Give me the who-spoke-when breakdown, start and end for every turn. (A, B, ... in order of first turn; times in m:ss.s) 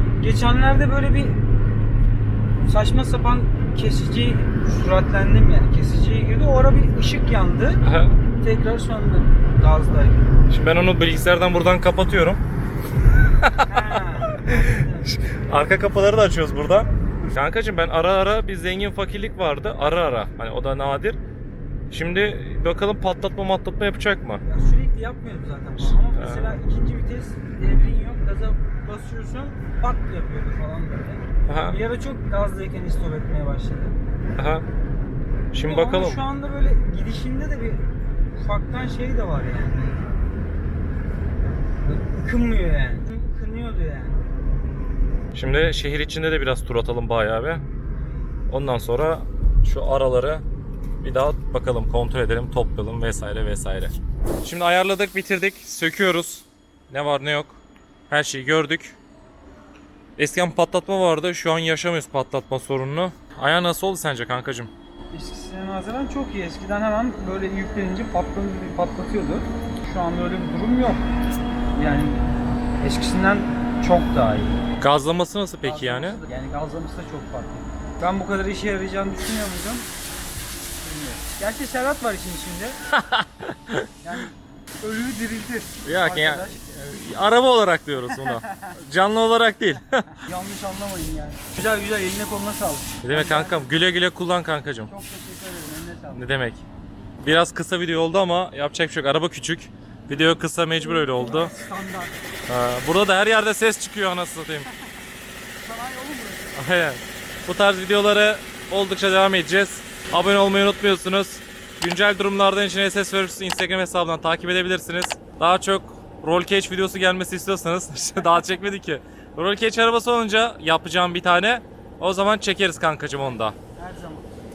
0:00.2-0:01.4 A
0:02.6-0:07.8 A
0:07.8-0:08.2 B
0:08.3-0:10.3 A
0:10.5-0:12.4 B
0:13.4-0:21.2 B
0:13.6-0:15.2 A
0:21.9-0:24.4 B
0:24.4-0:34.0 A
0:26.0-0:26.6 B
0:31.5-0:31.8 B
0:34.4-0:34.6 B
0:35.5-0:36.2 B
0:35.6-0:40.0 A
0:41.8-0:44.2 A
0:45.3-0:47.6 B
0:48.5-0:50.4 B
0:51.0-0:59.0 B
1:00.2-1:04.7 B
1:05.1-1:11.1 A
1:11.7-1:12.2 A
1:12.8-1:14.6 A
1:14.8-1:16.2 B
1:15.6-1:19.9 A
1:20.8-1:22.8 A
1:22.9-1:23.9 B
1:24.0-1:27.0 A
1:25.8-1:30.2 B
1:28.1-1:28.6 A
1:30.2-1:33.8 A
1:33.0-1:34.9 B
1:34.9-1:36.2 A
1:36.1-1:36.6 B
1:37.2-1:41.5 B
1:40.8-1:42.2 A
1:42.5-1:44.7 B
1:45.6-1:46.6 A
1:46.6-2:03.5 B
2:03.2-2:04.3 A